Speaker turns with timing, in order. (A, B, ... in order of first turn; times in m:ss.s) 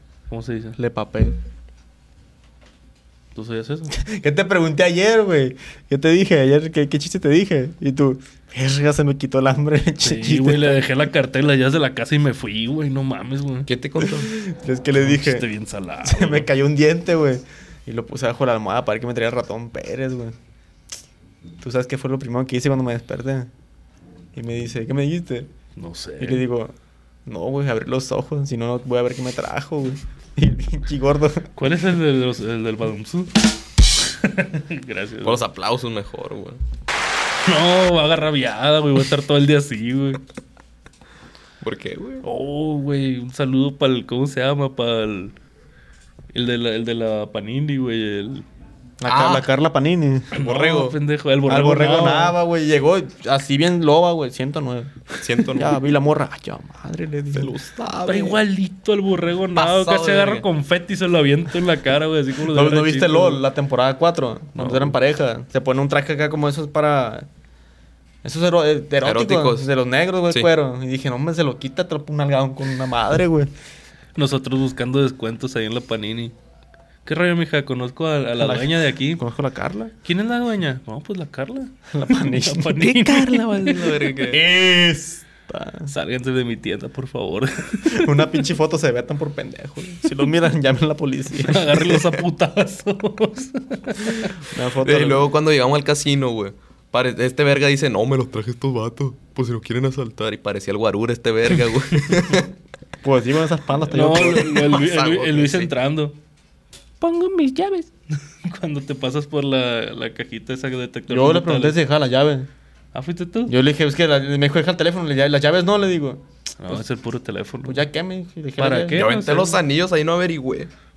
0:00.3-0:00.8 A
0:00.8-0:01.4 B
0:03.4-0:04.0 A
0:03.9-0:10.8 B
0:10.0-0:13.7 A
0:13.7-0:14.3 C
0:14.0-0:15.4 B
0:15.0-0:16.5 A
0:16.0-0:20.4 B
0:21.6-0:23.5 B
0:24.4-0:25.5 B
0:25.8-0:26.5 A
0:26.2-0:26.7 B
0:27.2-0:31.5 B
0:31.6-0:33.4 A
0:34.0-0:35.4 A
0:35.2-0:36.6 C
0:37.4-0:40.2 A
0:41.6-0:42.2 C
0:42.2-0:45.4 A
0:46.3-0:48.4 A
0:49.0-0:50.4 B
0:49.0-0:49.5 C
0:50.4-0:52.4 A
0:50.4-0:51.0 C
0:51.5-0:54.9 B
0:55.2-0:55.8 C
0:55.5-0:57.5 B
0:57.4-0:58.4 C
0:58.0-1:03.4 A
0:59.6-1:00.4 C
1:02.5-1:07.3 B
1:08.2-1:13.5 B
1:09.0-1:09.7 C
1:14.2-1:16.3 A
1:17.0-1:19.2 A
1:18.4-1:19.9 B
1:20.0-1:24.0 A
1:21.9-1:22.8 B
1:22.8-1:24.4 C
1:24.3-1:25.9 B
1:25.9-1:28.4 A
1:27.9-1:32.2 B
1:31.4-1:34.3 A
1:34.5-1:35.2 B
1:34.8-1:42.5 C
1:42.1-1:42.4 A
1:43.0-1:44.6 B
1:43.9-1:46.2 A
1:44.0-1:45.7 C
1:47.0-1:51.8 A
1:51.1-1:52.5 B
1:52.9-1:53.5 A
1:53.5-1:56.8 B
1:56.6-1:57.8 A
1:57.6-1:59.1 B
1:58.6-1:59.6 A
1:59.0-2:00.7 C